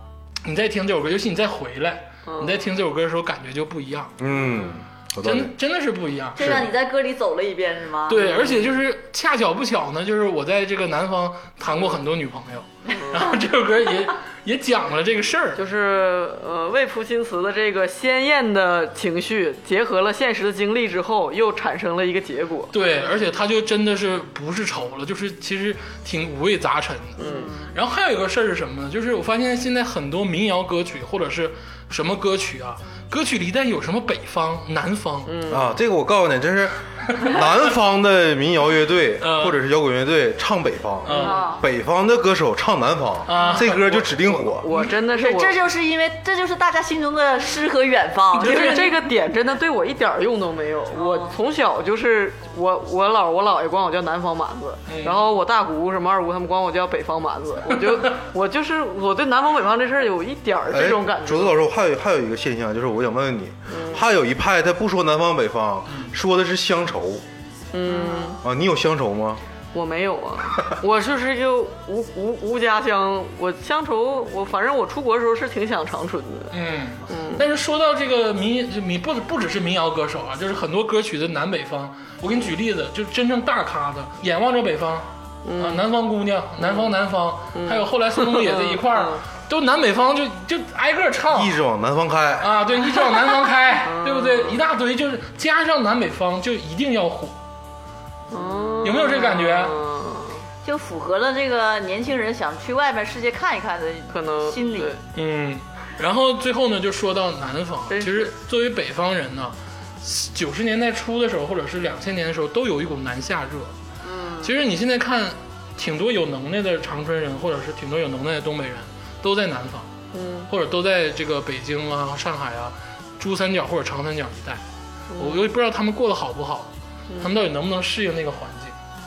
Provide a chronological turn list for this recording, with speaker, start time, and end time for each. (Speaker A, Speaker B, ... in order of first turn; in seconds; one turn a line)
Speaker A: 0.5-4.2
Speaker B: 2.2-2.7
Speaker C: 4.2-5.5
Speaker A: 5.2-6.6
Speaker D: 6.4-8.2
Speaker C: 6.4-6.7
Speaker A: 8.1-15.6
Speaker B: 8.2-8.7
Speaker B: 15.6-22.7
Speaker A: 22.7-35.4
Speaker B: 27.2-27.5
Speaker D: 27.2-27.7
Speaker B: 35.3-35.7
Speaker C: 35.5-44.7
Speaker A: 37.2-37.5
Speaker A: 39.2-39.6
Speaker A: 41.0-41.5
Speaker D: 41.2-41.6
Speaker A: 43.3-44.5
Speaker B: 44.6-45.6
Speaker D: 45.1-48.9
Speaker B: 48.4-61.6
Speaker A: 48.4-48.9
Speaker D: 51.0-51.3
Speaker A: 54.9-55.2
Speaker C: 60.7-67.2
Speaker B: 63.7-64.0
Speaker B: 67.7-68.4
Speaker C: 68.4-69.4
Speaker B: 69.7-76.5
Speaker A: 76.5-91.6
Speaker B: 77.1-77.5
Speaker B: 85.5-85.9
Speaker B: 86.6-86.9
Speaker B: 87.5-89.2
Speaker C: 91.3-92.5
Speaker A: 92.4-97.3
Speaker B: 93.8-94.6
Speaker B: 98.3-100.5
Speaker A: 98.8-99.8
Speaker D: 100.6-104.9
Speaker B: 104.1-105.0
Speaker A: 105.1-113.7
Speaker B: 107.9-108.4
Speaker D: 114.0-114.5
Speaker A: 114.4-119.9
Speaker B: 120.1-120.5
Speaker A: 120.5-124.6
Speaker B: 125.1-125.5
Speaker A: 125.2-128.7
Speaker B: 127.1-127.4